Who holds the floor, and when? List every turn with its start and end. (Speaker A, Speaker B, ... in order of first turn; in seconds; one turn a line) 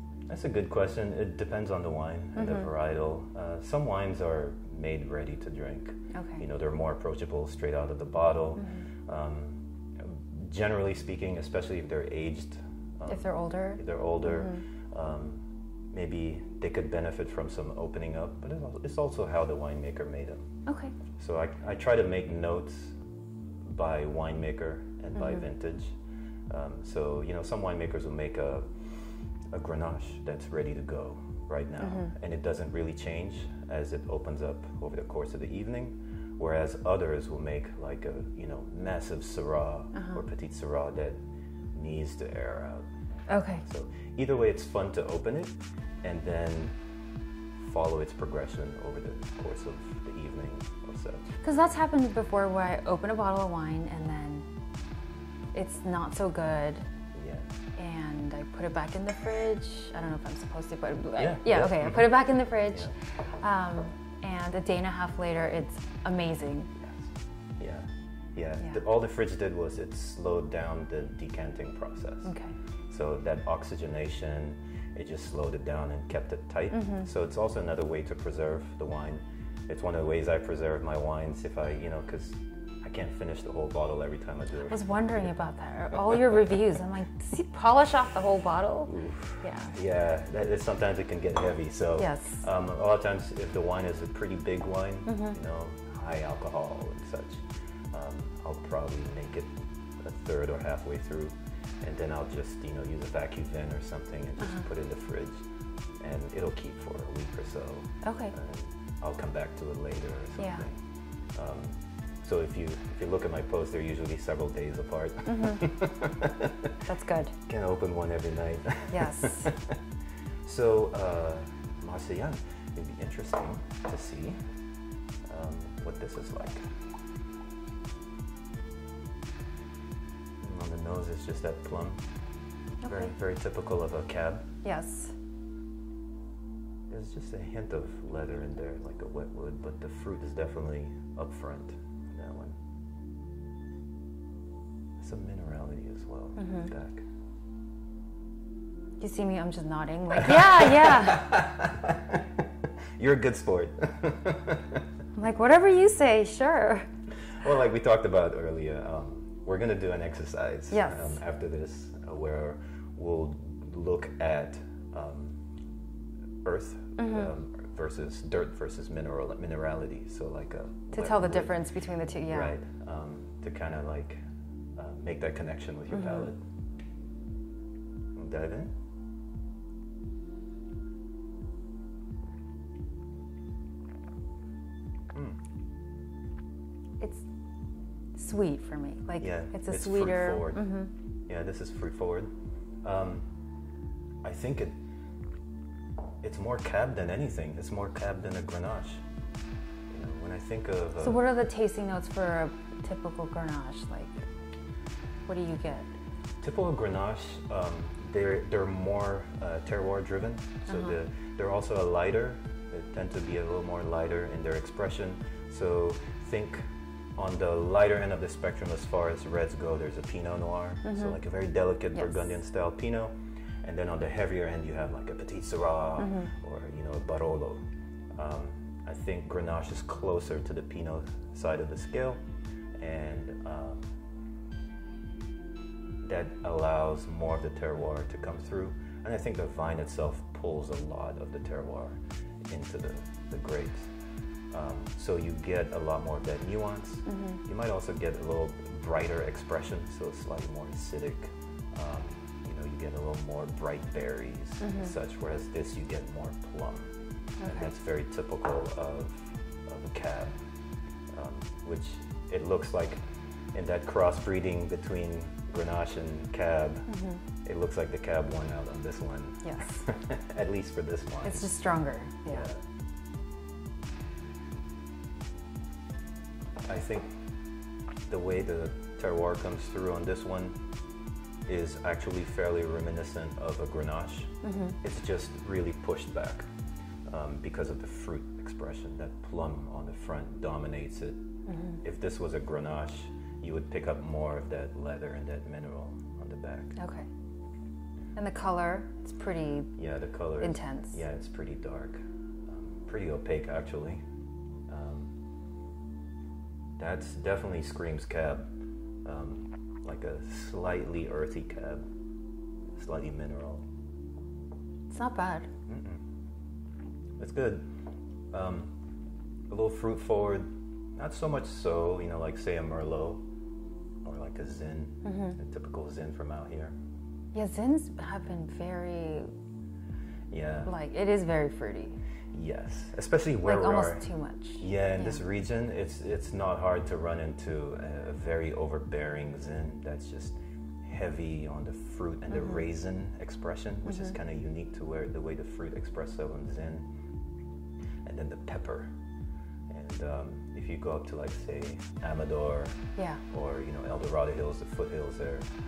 Speaker A: 0.3-20.5
Speaker B: 2.3-2.7
Speaker B: 6.1-6.4
Speaker B: 8.6-8.8
Speaker B: 13.1-14.6
Speaker B: 20.7-20.9
Speaker A: 21.2-22.9
Speaker A: 23.6-25.9
Speaker B: 25.1-25.4
Speaker A: 26.5-28.7
Speaker A: 29.5-41.2
Speaker B: 31.8-32.1
Speaker B: 39.9-40.2
Speaker A: 41.7-42.9
Speaker B: 43.3-43.6
Speaker A: 43.6-46.7
Speaker A: 47.6-51.2
Speaker B: 51.4-54.4
Speaker B: 55.5-56.8
Speaker A: 57.1-57.5
Speaker B: 57.8-66.7
Speaker A: 61.2-62.9
Speaker A: 66.8-72.3
Speaker B: 72.2-72.5
Speaker A: 72.9-85.3
Speaker B: 76.7-77.1
Speaker B: 84.7-89.7
Speaker A: 88.9-97.4
Speaker B: 92.0-92.4
Speaker B: 95.1-95.3
Speaker A: 97.9-105.4
Speaker A: 106.0-110.8
Speaker B: 108.0-108.3
Speaker B: 110.4-110.6
Speaker A: 111.3-116.7
Speaker B: 115.2-115.6
Speaker B: 116.8-117.3
Speaker A: 117.5-119.7
Speaker B: 118.9-119.5
Speaker A: 120.4-124.4
Speaker A: 125.3-126.6
Speaker A: 130.4-132.0
Speaker B: 132.8-133.1
Speaker A: 132.8-134.4
Speaker B: 134.6-135.1
Speaker A: 136.9-142.6
Speaker A: 145.0-147.0
Speaker B: 146.4-146.7
Speaker B: 149.0-151.3
Speaker A: 150.1-152.2
Speaker A: 153.0-154.8
Speaker B: 155.1-156.9
Speaker A: 157.4-165.4
Speaker B: 160.7-161.2
Speaker A: 166.4-171.6
Speaker B: 167.0-167.3
Speaker B: 170.9-172.5
Speaker A: 172.3-174.2
Speaker A: 174.8-176.4
Speaker B: 175.9-176.3
Speaker A: 178.2-178.7
Speaker B: 187.0-187.2
Speaker B: 188.2-190.9
Speaker A: 189.2-190.7
Speaker A: 191.3-192.3
Speaker A: 192.8-193.2
Speaker A: 194.2-194.7
Speaker A: 196.2-199.0
Speaker A: 199.9-201.2
Speaker B: 201.0-204.2
Speaker B: 205.3-205.9
Speaker A: 206.4-216.6
Speaker B: 210.7-210.9
Speaker A: 217.2-227.6
Speaker B: 220.8-221.2
Speaker B: 221.9-222.2
Speaker B: 226.0-226.3
Speaker A: 228.2-232.2
Speaker A: 232.8-233.8
Speaker A: 236.0-242.0
Speaker A: 242.5-243.9
Speaker A: 244.5-256.9
Speaker B: 247.1-247.4
Speaker B: 254.6-254.9
Speaker B: 257.4-257.7
Speaker A: 257.4-260.3
Speaker A: 261.1-263.0
Speaker A: 263.5-266.9
Speaker B: 266.9-267.2
Speaker A: 267.4-271.5
Speaker B: 269.4-269.8
Speaker B: 271.2-272.5
Speaker A: 272.3-272.5
Speaker A: 276.7-277.1
Speaker A: 278.1-280.5
Speaker A: 281.5-286.5
Speaker B: 284.4-284.8
Speaker A: 287.1-291.2
Speaker B: 291.5-291.8
Speaker A: 291.8-296.7
Speaker B: 296.8-297.1
Speaker B: 298.1-299.7
Speaker A: 299.8-304.0
Speaker B: 300.4-301.0
Speaker A: 304.7-305.1
Speaker A: 306.8-308.5
Speaker A: 309.0-311.8
Speaker A: 312.7-313.6
Speaker B: 314.9-315.5
Speaker A: 315.7-316.0
Speaker A: 317.2-317.6
Speaker A: 318.3-318.7
Speaker A: 319.5-323.2
Speaker A: 324.0-326.7
Speaker B: 325.0-325.4
Speaker B: 327.3-329.3
Speaker A: 330.3-330.7
Speaker B: 330.6-332.0
Speaker A: 332.3-334.1
Speaker B: 333.4-335.2
Speaker A: 334.6-346.8
Speaker B: 342.3-342.6
Speaker A: 348.0-348.9
Speaker A: 349.7-352.8
Speaker A: 353.3-355.5